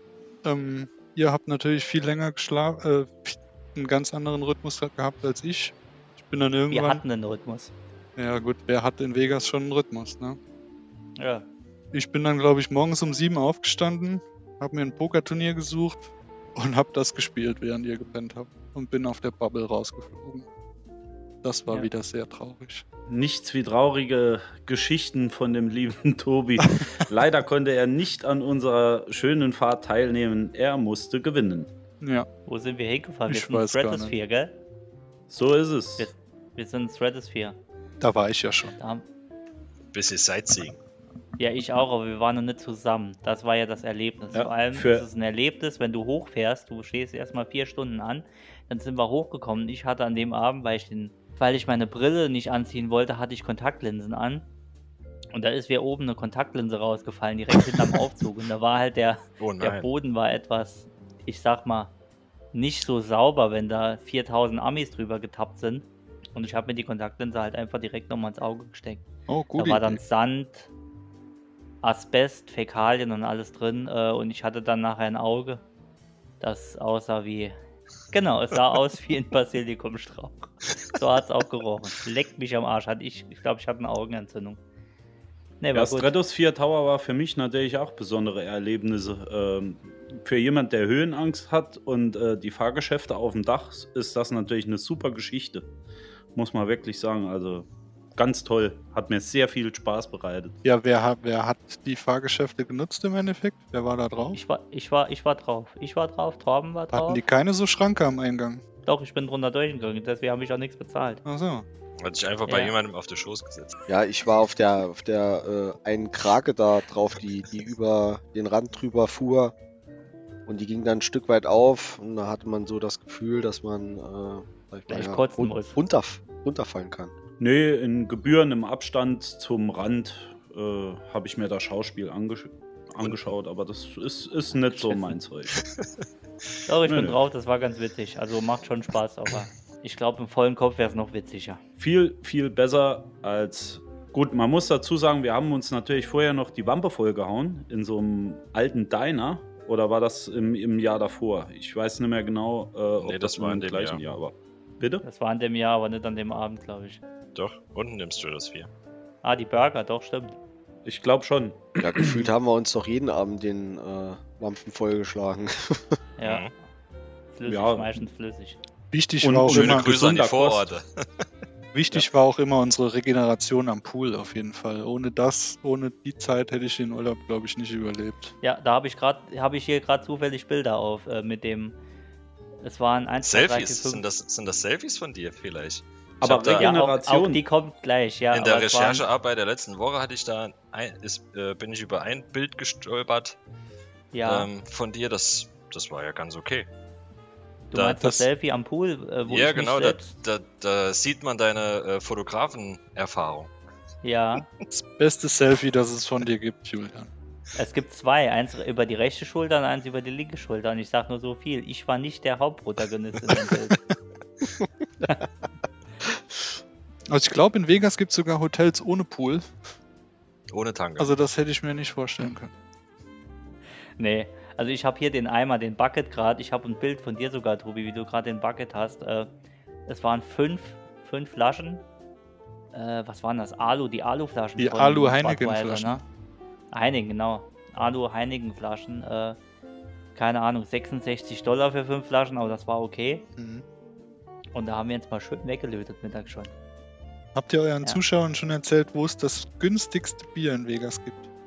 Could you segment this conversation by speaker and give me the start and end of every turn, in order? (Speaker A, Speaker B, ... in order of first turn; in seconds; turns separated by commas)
Speaker A: 0.4-7.0, Speaker B: 6.7-7.7, Speaker A: 8.2-10.4, Speaker B: 11.2-11.4, Speaker A: 11.9-20.5, Speaker A: 21.4-22.8, Speaker C: 23.1-31.7, Speaker A: 32.0-32.3, Speaker B: 32.5-34.5, Speaker A: 33.3-34.1, Speaker C: 35.3-36.1, Speaker B: 36.0-37.6, Speaker A: 38.0-38.7, Speaker B: 38.8-39.0, Speaker D: 39.9-40.8, Speaker B: 41.4-54.5, Speaker C: 44.3-45.0, Speaker B: 55.3-61.9, Speaker D: 59.4-59.9, Speaker B: 62.5-70.7, Speaker A: 69.3-70.0, Speaker B: 71.8-75.6, Speaker B: 76.4-77.6, Speaker B: 78.1-84.6, Speaker B: 85.6-86.1, Speaker C: 85.7-95.7, Speaker C: 96.3-100.5, Speaker A: 100.6-104.4, Speaker B: 104.3-107.2, Speaker A: 106.9-108.6, Speaker B: 108.8-111.2, Speaker A: 111.2-111.7, Speaker D: 112.0-113.8, Speaker B: 112.5-112.7, Speaker E: 113.9-119.5, Speaker E: 120.5-127.1, Speaker B: 124.9-125.8, Speaker C: 127.4-135.5, Speaker D: 135.6-135.8, Speaker B: 136.7-141.6, Speaker C: 136.8-137.2, Speaker C: 141.8-155.0, Speaker D: 153.0-154.0, Speaker B: 155.0-157.0, Speaker D: 157.3-158.7, Speaker B: 159.2-160.3, Speaker C: 160.8-162.3, Speaker E: 161.8-166.0, Speaker B: 166.2-166.5, Speaker D: 166.2-166.5, Speaker B: 167.3-168.6, Speaker C: 167.4-167.9, Speaker A: 168.9-170.0, Speaker C: 169.2-170.7, Speaker D: 169.5-171.0, Speaker A: 171.7-178.3, Speaker B: 178.4-181.8, Speaker B: 182.6-184.0, Speaker D: 183.2-186.8, Speaker C: 186.2-187.4, Speaker B: 186.6-189.0, Speaker D: 188.3-193.3, Speaker B: 194.1-194.5, Speaker D: 194.2-196.7, Speaker B: 197.7-200.1, Speaker D: 197.7-198.1, Speaker D: 199.3-203.5, Speaker B: 204.0-204.4, Speaker A: 204.7-207.1, Speaker B: 207.6-213.8, Speaker A: 217.1-219.5, Speaker D: 220.5-221.1, Speaker A: 221.0-222.5, Speaker B: 224.0-229.3, Speaker B: 229.9-231.8, Speaker B: 232.7-236.0, Speaker A: 234.6-236.0, Speaker B: 236.7-239.4, Speaker B: 240.1-243.2, Speaker A: 243.4-243.6, Speaker B: 244.5-246.5, Speaker A: 247.3-251.3